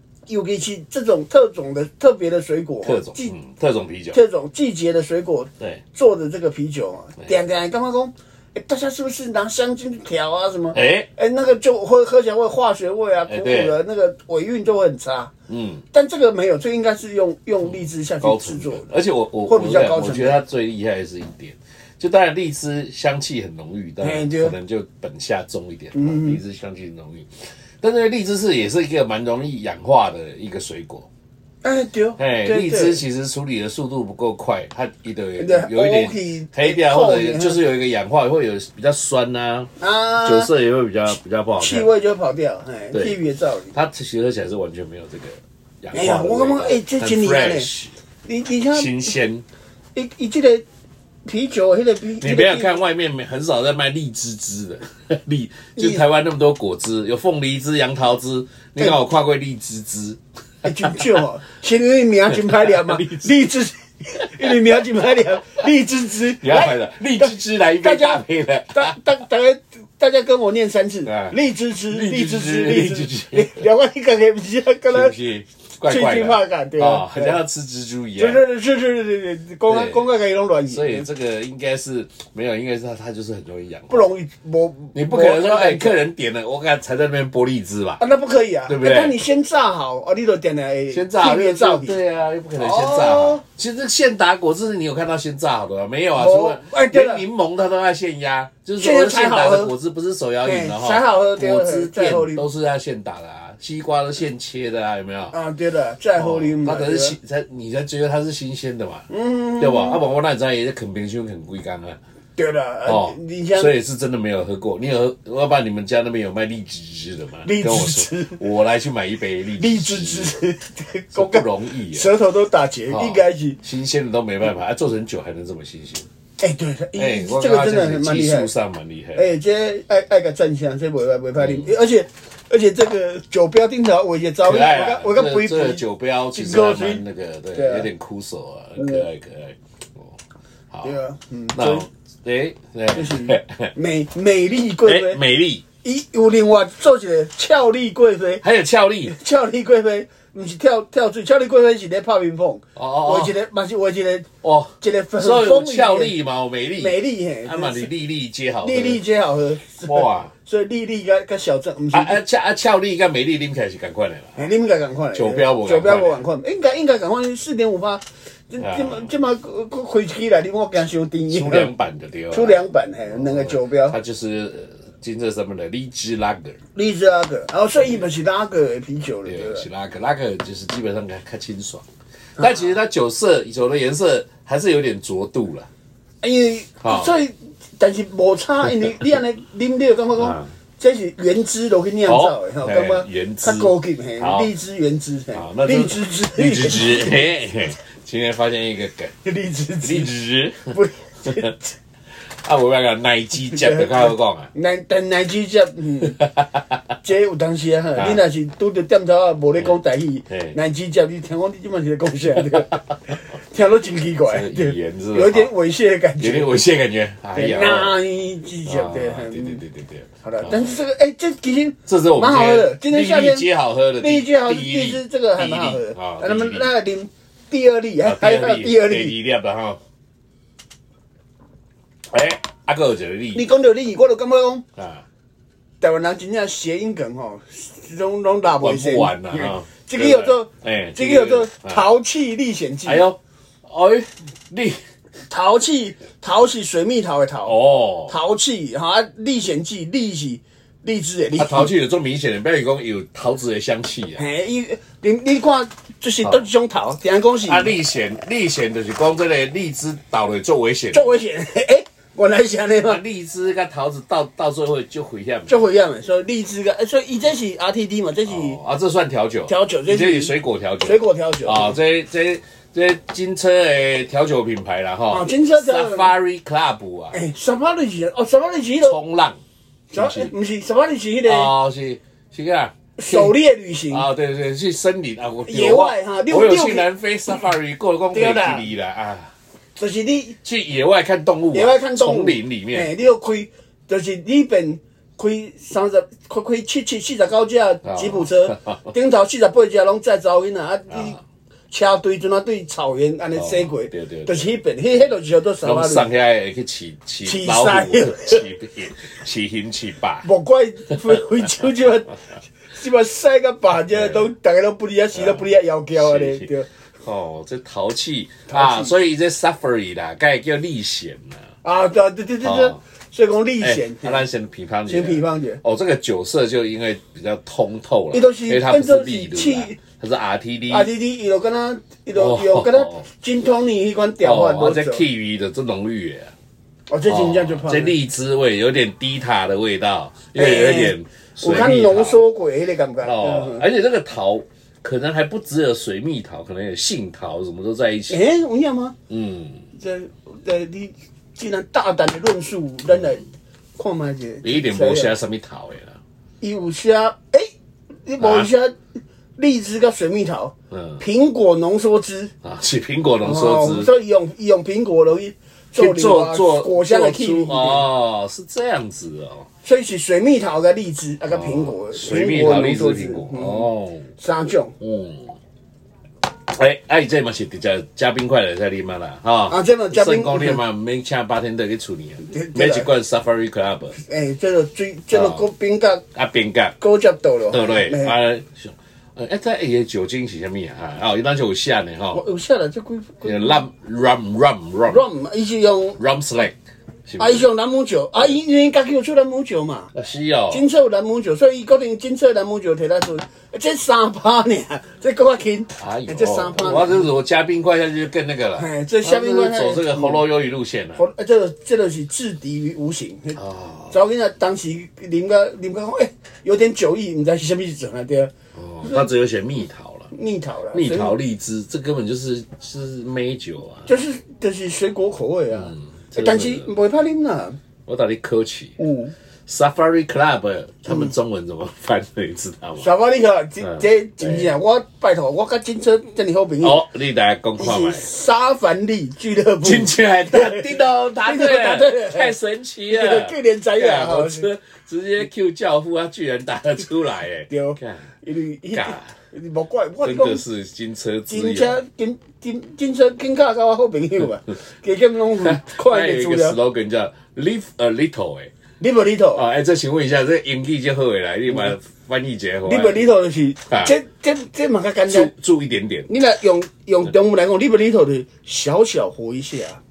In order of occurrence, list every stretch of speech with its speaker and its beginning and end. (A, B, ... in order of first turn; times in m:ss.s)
0:00.3-0:03.3 A
0:02.8-0:04.2 B
0:04.1-0:15.3 A
0:10.7-0:11.1 B
0:13.3-0:13.8 B
0:15.5-0:15.8 B
0:15.9-0:18.9 A
0:17.7-0:31.1 B
0:19.5-0:20.4 A
0:24.0-0:24.6 A
0:25.9-0:26.4 A
0:31.6-0:33.0 A
0:32.2-0:39.7 B
0:35.4-0:37.6 A
0:39.8-0:40.5 A
0:40.2-0:41.9 B
0:41.6-0:43.7 A
0:43.7-0:47.9 B
0:45.9-0:47.7 A
0:48.2-0:49.1 A
0:48.7-0:49.4 B
0:50.0-0:50.6 A
0:51.2-0:52.8 A
0:52.2-1:01.2 B
0:55.8-0:56.0 A
1:00.6-1:15.2 A
1:02.5-1:03.3 B
1:04.2-1:04.6 B
1:06.4-1:09.0 B
1:11.0-1:11.4 B
1:11.9-1:13.6 B
1:14.9-1:18.4 B
1:15.9-1:17.4 A
1:18.2-1:21.1 A
1:19.7-1:20.1 B
1:20.7-1:24.1 B
1:23.9-1:26.0 A
1:24.9-1:28.0 B
1:28.0-1:32.0 A
1:28.7-1:29.2 B
1:30.9-1:45.4 B
1:32.6-1:33.4 A
1:36.2-1:37.3 A
1:38.8-1:39.7 A
1:40.4-1:42.4 A
1:45.3-1:47.2 A
1:46.2-1:52.0 B
1:49.1-1:50.0 A
1:52.4-1:53.7 A
1:52.9-2:00.4 B
1:57.4-1:58.4 A
1:59.6-2:03.6 A
2:01.1-2:02.1 B
2:02.9-2:06.1 B
2:06.4-2:08.5 A
2:07.0-2:09.3 B
2:09.2-2:17.0 A
2:11.4-2:11.7 B
2:14.4-2:20.2 B
2:17.5-2:17.9 A
2:18.8-2:19.1 A
2:20.8-2:21.9 A
2:21.5-2:23.7 B
2:22.9-2:25.2 A
2:24.8-2:25.6 B
2:25.8-2:28.4 A
2:28.4-2:29.2 B
2:29.1-2:34.3 A
2:32.8-2:33.3 B
2:34.4-2:39.0 B
2:34.8-2:36.2 A
2:36.8-2:37.9 A
2:38.6-2:42.2 A
2:39.8-2:40.3 B
2:41.9-2:44.5 B
2:44.4-2:51.7 A
2:45.2-2:46.2 B
2:48.6-2:49.1 B
2:51.3-2:52.6 B
2:52.3-2:54.0 A
2:53.1-2:56.6 B
2:56.8-2:59.7 A
2:59.3-3:01.9 B
3:02.4-3:05.7 B
3:02.4-3:02.7 A
3:06.2-3:17.3 A
3:06.8-3:07.2 B
3:10.2-3:10.5 B
3:12.1-3:14.5 B
3:15.3-3:19.2 B
3:19.2-3:20.1 A
3:19.8-3:21.6 B
3:20.7-3:21.7 A
3:22.3-3:24.5 B
3:23.5-3:26.2 A
3:26.0-3:26.8 B
3:27.0-3:32.8 A
3:28.0-3:28.2 B
3:30.3-3:30.6 B
3:32.6-3:33.0 B
3:33.4-3:36.5 A
3:34.3-3:35.5 B
3:36.2-3:38.0 B
3:37.4-3:39.6 A
3:38.7-3:40.7 B
3:40.2-3:43.5 A
3:41.9-3:46.7 B
3:44.0-3:49.2 A
3:48.0-3:49.8 B
3:52.1-3:53.4 B
3:53.3-3:54.6 A
3:54.8-3:55.0 B
3:55.8-4:03.1 A
3:58.6-4:01.8 B
4:02.8-4:04.8 B
4:05.3-4:07.6 A
4:07.4-4:08.2 B
4:08.1-4:11.7 A
4:11.4-4:14.3 B
4:14.2-4:17.7 A
4:17.4-4:21.1 B
4:20.9-4:23.0 A
4:22.8-4:25.6 B
4:25.5-4:28.6 A
4:28.3-4:37.2 B
4:29.5-4:31.8 A
4:35.1-4:36.1 A
4:37.1-4:39.0 A
4:38.8-4:39.4 B
4:39.9-4:41.5 A
4:40.0-4:40.3 B
4:41.2-4:43.4 B
4:43.0-4:44.0 A
4:43.9-4:49.3 B
4:45.5-4:47.4 A
4:48.1-4:48.7 A
4:49.8-4:50.4 A
4:50.4-4:52.9 B
4:51.5-5:01.2 A
4:57.8-4:58.9 B
5:00.9-5:01.2 B
5:01.7-5:06.1 A
5:03.4-5:10.3 B
5:07.2-5:08.4 A
5:10.2-5:12.2 A
5:12.7-5:16.7 A
5:13.9-5:14.3 B
5:15.2-5:15.4 B
5:16.0-5:16.5 B
5:17.0-5:21.4 B
5:18.5-5:18.9 A
5:21.6-5:24.2 A
5:22.4-5:22.8 B
5:23.6-5:30.9 B
5:24.9-5:25.6 A
5:28.1-5:29.8 A
5:30.7-5:35.0 A
5:32.1-5:33.1 B
5:34.2-5:36.3 B
5:36.9-5:38.0 A
5:37.1-5:42.2 B
5:40.4-5:43.7 A
5:43.0-5:48.2 B
5:48.1-5:49.0 A
5:49.1-5:49.6 B
5:49.8-5:53.2 A
5:53.8-5:55.1 A
5:54.4-5:56.0 B
5:56.4-5:57.5 A
5:58.1-5:58.8 A
5:58.2-5:58.5 B
5:59.4-6:02.3 A
6:00.7-6:01.0 B
6:02.4-6:03.9 B
6:03.2-6:07.9 A
6:05.8-6:09.5 B
6:09.6-6:14.7 A
6:11.3-6:14.1 B
6:14.8-6:15.4 B
6:16.5-6:24.0 B
6:19.5-6:20.6 A
6:22.2-6:22.9 A
6:24.0-6:26.0 A
6:25.1-6:25.5 B
6:26.2-6:26.8 B
6:26.8-6:28.2 A
6:27.5-6:32.2 B
6:32.1-6:33.6 A
6:33.2-6:35.0 B
6:34.9-6:36.0 A
6:36.0-6:37.5 B
6:37.2-6:39.9 A
6:39.9-6:40.6 B
6:40.5-6:47.1 A
6:45.8-6:51.0 B
6:48.6-6:50.2 A
6:51.0-6:53.4 A
6:53.4-6:54.0 B
6:53.9-6:58.3 A
6:58.6-7:00.1 B
6:58.8-6:59.1 A
7:00.1-7:01.2 A
7:00.7-7:03.9 B
7:03.9-7:07.6 A
7:05.5-7:06.7 B
7:07.9-7:08.8 B
7:08.8-7:09.1 A
7:09.5-7:12.9 B
7:12.8-7:16.8 A
7:13.6-7:14.5 B
7:16.6-7:18.1 B
7:17.6-7:22.4 A
7:19.6-7:28.1 B
7:22.9-7:24.5 A
7:27.5-7:30.4 A
7:28.7-7:29.1 B
7:30.0-7:31.8 B
7:31.3-7:36.6 A
7:35.4-7:38.5 B
7:38.8-7:39.4 A
7:39.3-7:43.1 B
7:42.7-7:45.3 A
7:43.7-7:44.0 B
7:45.1-7:46.1 B
7:46.1-7:49.8 A